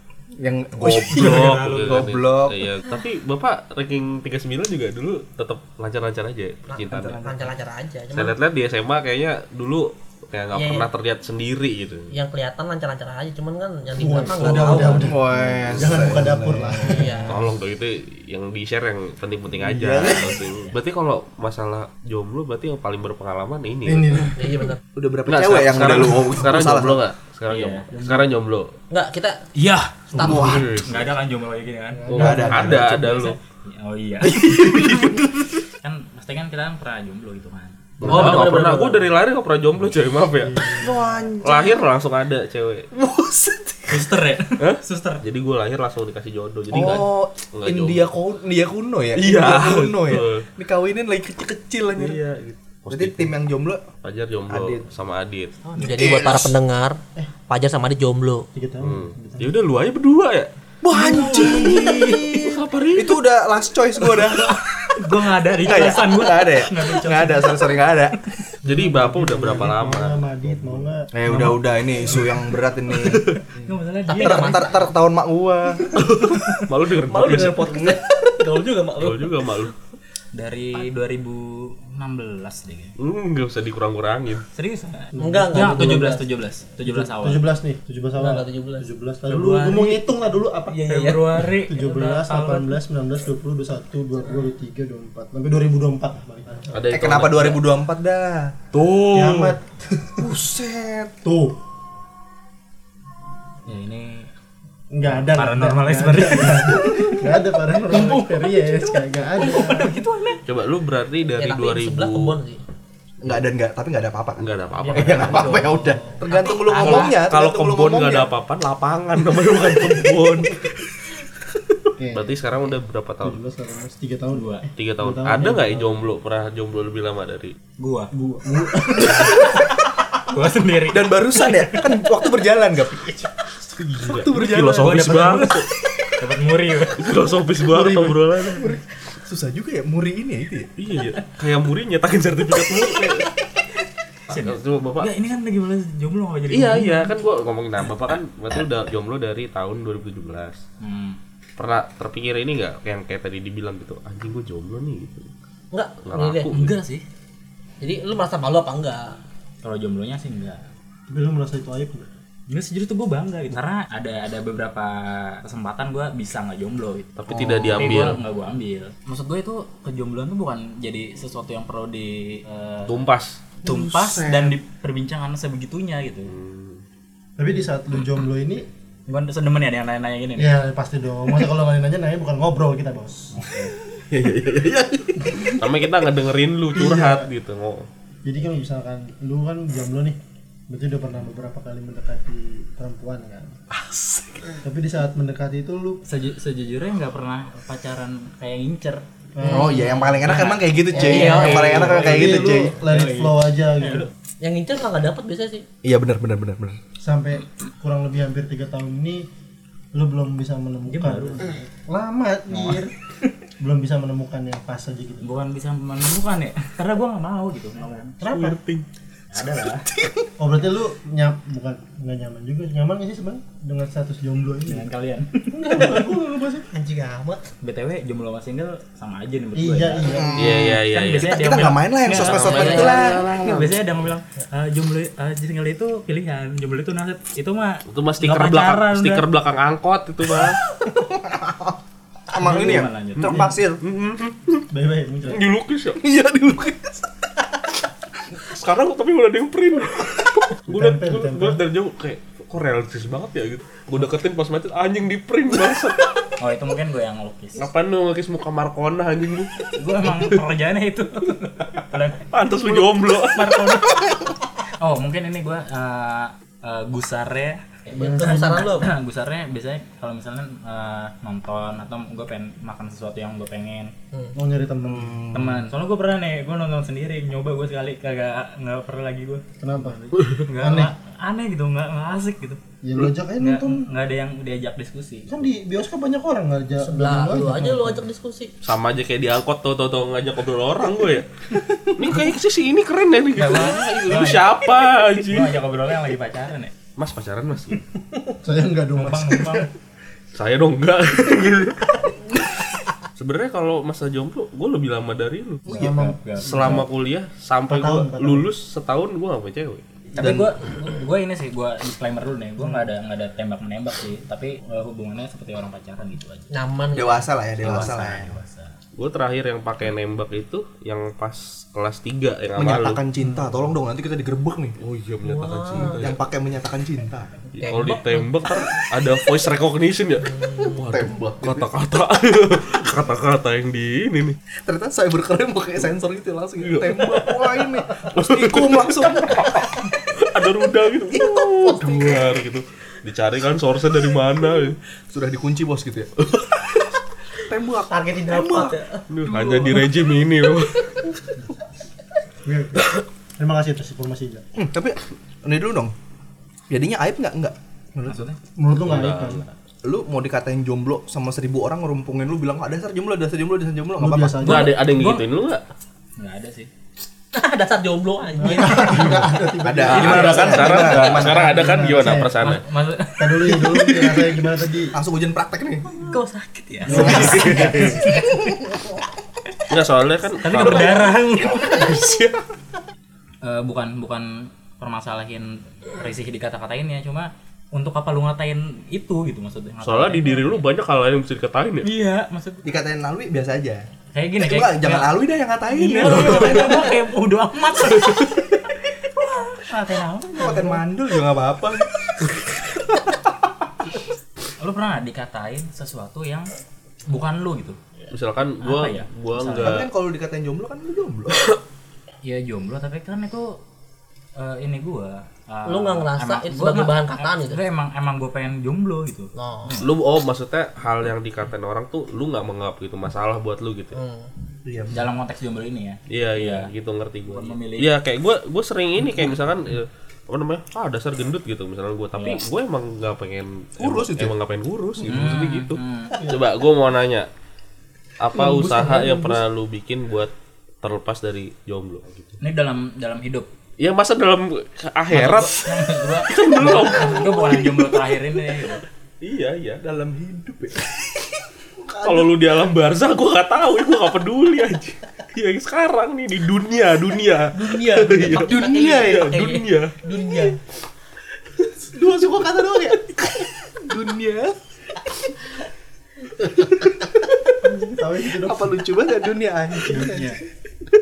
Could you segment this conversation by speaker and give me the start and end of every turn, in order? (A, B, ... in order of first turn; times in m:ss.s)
0:00.4-0:02.7 A
0:00.8-0:02.1 B
0:00.9-0:07.2 C
0:06.7-0:08.4 D
0:06.9-0:07.4 A
0:08.1-0:12.1 C
0:10.5-0:10.9 D
0:12.1-0:15.2 D
0:14.0-0:17.3 E
0:14.4-0:17.0 A
0:14.6-0:15.6 B
0:16.8-0:17.5 D
0:17.3-0:24.3 C
0:19.6-0:20.3 A
0:20.0-0:20.8 B
0:23.8-0:24.6 E
0:24.4-0:24.8 D
0:24.9-0:27.0 A
0:25.3-0:28.7 C
0:27.5-0:27.8 B
0:27.9-0:28.3 E
0:28.9-0:29.4 D
0:29.5-0:34.9 B
0:30.1-0:30.5 E
0:30.2-0:30.8 A
0:30.3-0:31.1 C
0:31.9-0:32.9 E
0:32.1-0:33.4 C
0:32.1-0:32.9 A
0:34.4-0:35.6 C
0:34.4-0:35.0 A
0:35.8-0:37.9 B
0:38.0-0:38.4 E
0:38.0-0:40.8 C
0:38.0-0:39.1 D
0:40.4-0:41.3 E
0:40.8-0:41.8 A
0:41.4-0:42.9 C
0:43.0-0:44.0 A
0:43.9-0:45.2 B
0:44.6-0:48.1 C
0:46.7-0:52.2 A
0:49.2-0:50.4 C
0:51.9-0:53.3 C
0:52.9-0:53.8 A
0:54.0-0:55.5 C
0:54.5-0:54.8 A
0:55.6-0:56.2 B
0:55.8-0:58.4 D
0:56.0-0:56.6 A
0:58.5-0:59.6 E
0:58.8-1:00.5 C
1:00.8-1:04.6 A
1:00.9-1:02.5 B
1:01.2-1:01.5 C
1:02.0-1:03.2 C
1:04.1-1:08.4 B
1:05.6-1:08.2 A
1:08.6-1:10.9 C
1:08.6-1:11.1 E
1:11.1-1:13.5 A
1:11.3-1:11.6 B
1:12.9-1:14.7 B
1:14.1-1:14.9 D
1:14.1-1:16.6 A
1:16.1-1:17.9 C
1:16.9-1:19.5 D
1:19.0-1:19.7 C
1:20.3-1:22.9 B
1:23.0-1:24.4 C
1:24.5-1:27.5 B
1:25.1-1:26.1 E
1:25.2-1:26.2 D
1:26.8-1:36.8 E
1:28.2-1:28.9 D
1:29.3-1:30.0 B
1:30.7-1:32.8 B
1:30.9-1:31.2 D
1:36.7-1:37.6 C
1:36.9-1:38.6 A
1:38.8-1:39.6 C
1:39.0-1:40.3 E
1:40.2-1:41.2 A
1:41.2-1:41.6 E
1:43.6-1:44.3 B
1:44.9-1:49.9 E
1:45.0-1:47.2 B
1:47.9-1:48.3 B
1:49.4-1:50.0 B
1:49.5-1:50.4 D
1:50.5-1:52.3 C
1:51.3-1:52.6 D
1:53.2-1:58.3 A
1:54.4-1:55.6 C
1:54.8-1:57.2 B
1:55.4-1:55.6 D
1:55.8-1:56.2 E
1:56.3-1:56.9 D
1:56.8-2:00.7 C
2:02.0-2:02.3 E
2:02.1-2:03.4 C
2:03.2-2:06.0 E
2:04.3-2:04.7 B
2:04.8-2:07.6 C
2:07.8-2:08.1 B
2:08.1-2:09.6 E
2:09.0-2:12.0 B
2:10.9-2:13.1 A
2:13.7-2:15.7 C
2:14.0-2:15.6 A
2:15.1-2:15.5 B
2:16.1-2:17.1 B
2:17.0-2:18.8 C
2:17.8-2:20.7 A
2:20.8-2:23.3 C
2:24.3-2:27.1 B
2:24.3-2:25.1 C
2:26.5-2:30.6 C
2:30.8-2:31.2 B
2:31.6-2:35.3 C
2:35.7-2:36.5 D
2:36.0-2:36.7 C
2:36.5-2:37.0 B
2:37.8-2:39.2 D
2:39.6-2:40.6 B
2:41.1-2:42.1 E
2:42.5-2:47.1 B
2:47.2-2:48.2 C
2:47.3-2:47.8 A
2:47.7-2:53.0 B
2:52.9-2:53.5 C
2:53.6-2:56.3 B
2:53.7-2:54.5 A
2:56.3-2:56.8 C
2:57.4-2:58.7 E
2:59.1-3:00.6 B
3:00.4-3:03.4 E
3:03.3-3:03.7 B
3:04.1-3:07.9 C
3:04.3-3:04.6 A
3:05.2-3:05.6 A
3:06.8-3:07.3 E
3:08.2-3:13.6 E
3:13.7-3:14.2 A
3:14.6-3:16.0 E
3:16.0-3:24.1 B
3:19.3-3:19.8 E
3:19.4-3:22.8 A
3:20.9-3:21.9 D
3:21.1-3:24.1 E
3:24.4-3:25.7 D
3:25.8-3:26.8 A
3:27.0-3:29.3 E
3:29.9-3:32.9 E
3:30.9-3:31.6 B
3:32.5-3:33.3 B
3:33.6-3:35.2 E
3:35.2-3:38.2 B
3:37.9-3:38.6 E
3:38.2-3:38.8 C
3:39.3-3:39.9 B
3:40.4-3:44.9 E
3:44.7-3:45.6 B
3:45.5-3:46.7 E
3:45.6-3:46.1 D
3:46.7-3:47.4 D
3:47.6-3:59.3 B
3:49.6-3:50.5 E
3:50.1-3:53.7 A
3:50.4-3:51.4 C
3:52.1-3:53.8 C
3:52.4-3:53.2 D
3:57.9-4:00.6 C
4:00.8-4:03.8 A
4:02.3-4:03.5 B
4:03.2-4:04.6 C
4:04.7-4:05.4 E
4:05.3-4:06.1 C
4:06.0-4:07.1 A
4:08.4-4:16.2 C
4:10.7-4:11.6 E
4:16.4-4:17.7 B
4:17.6-4:20.4 C
4:19.7-4:24.2 B
4:22.3-4:23.6 C
4:24.8-4:33.9 B
4:27.9-4:28.7 E
4:27.9-4:28.9 D
4:34.3-4:35.2 E
4:34.9-4:35.6 A
4:35.3-4:39.4 B
4:39.6-4:40.9 E
4:40.1-4:42.6 B
4:42.8-4:43.9 E
4:43.4-4:45.3 B
4:45.3-4:48.1 E
4:46.8-4:48.5 D
4:48.6-4:51.3 C
4:51.9-4:55.6 C
4:53.4-4:54.7 B
4:55.2-4:56.7 B
4:57.0-4:57.8 C
4:58.4-4:59.7 E
4:58.9-4:59.7 B
5:00.3-5:02.4 C
5:03.2-5:05.7 C
5:05.7-5:06.8 B
5:05.7-5:06.8 E
5:06.4-5:09.8 C
5:07.7-5:08.5 E
5:10.1-5:16.5 B
5:10.2-5:10.5 A
5:16.5-5:17.3 D
5:16.9-5:18.3 A
5:17.6-5:18.7 B
5:19.0-5:23.0 C
5:22.6-5:24.8 A
5:24.8-5:26.2 C
5:25.2-5:26.0 D
5:26.0-5:27.4 A
5:27.5-5:34.4 C
5:27.6-5:28.0 D
5:30.2-5:30.8 D
5:30.8-5:31.7 A
5:34.6-5:39.8 A
5:36.6-5:37.4 C
5:38.0-5:44.8 C
5:41.1-5:42.0 A
5:45.1-5:46.1 A
5:46.2-5:46.8 C
5:47.4-5:48.8 A
5:47.8-5:49.0 D
5:49.1-5:51.1 C
5:52.4-5:54.4 E
5:54.6-5:55.9 A
5:56.7-5:58.2 A
5:58.1-5:58.4 B
5:58.6-5:59.4 E
5:58.8-5:59.5 C
5:59.8-6:04.4 A
6:04.0-6:04.8 E
6:04.4-6:05.6 C
6:04.5-6:05.3 B
6:06.2-6:06.7 B
6:07.3-6:09.3 D
6:08.4-6:12.4 E
6:08.8-6:11.8 A
6:09.9-6:12.6 C
6:09.9-6:10.6 B
6:10.0-6:11.0 D
6:12.4-6:14.4 B
6:13.2-6:14.9 E
6:14.9-6:16.0 A
6:16.1-6:18.6 B
6:16.8-6:18.0 E
6:16.9-6:18.5 A
6:16.9-6:18.0 C
6:19.7-6:22.4 C
6:20.4-6:21.8 B
6:23.4-6:30.6 B
6:29.8-6:31.9 C
6:31.8-6:32.7 B
6:32.6-6:33.8 A
6:34.1-6:38.4 B
6:34.4-6:36.6 A
6:36.2-6:36.9 D
6:36.2-6:36.7 C
6:38.0-6:38.3 C
6:39.0-6:40.8 B
6:40.3-6:42.3 A
6:44.6-6:46.5 B
6:47.1-6:47.8 B
6:48.1-6:49.9 C
6:48.6-6:49.8 B
6:49.6-6:51.4 A
6:52.2-6:53.6 B
6:54.4-6:59.9 B
6:55.7-6:57.6 D
6:59.4-6:59.8 D
6:59.8-7:04.0 C
7:03.9-7:04.3 D
7:04.6-7:05.0 A
7:04.9-7:06.7 B
7:06.1-7:17.3 C
7:07.3-7:07.9 B
7:12.2-7:12.4 B
7:13.8-7:14.3 A
7:15.0-7:16.2 B
7:18.2-7:22.4 C
7:18.3-7:19.4 A
7:22.4-7:23.5 B
7:23.8-7:27.8 C
7:25.1-7:28.8 B
7:29.2-7:30.7 C
7:30.2-7:30.7 A
7:31.8-7:32.3 A
7:32.0-7:39.9 C
7:37.6-7:40.6 D
7:38.2-7:39.2 A
7:41.7-7:44.6 A
7:47.6-7:48.8 E
7:48.3-7:50.4 A
7:49.9-7:50.4 B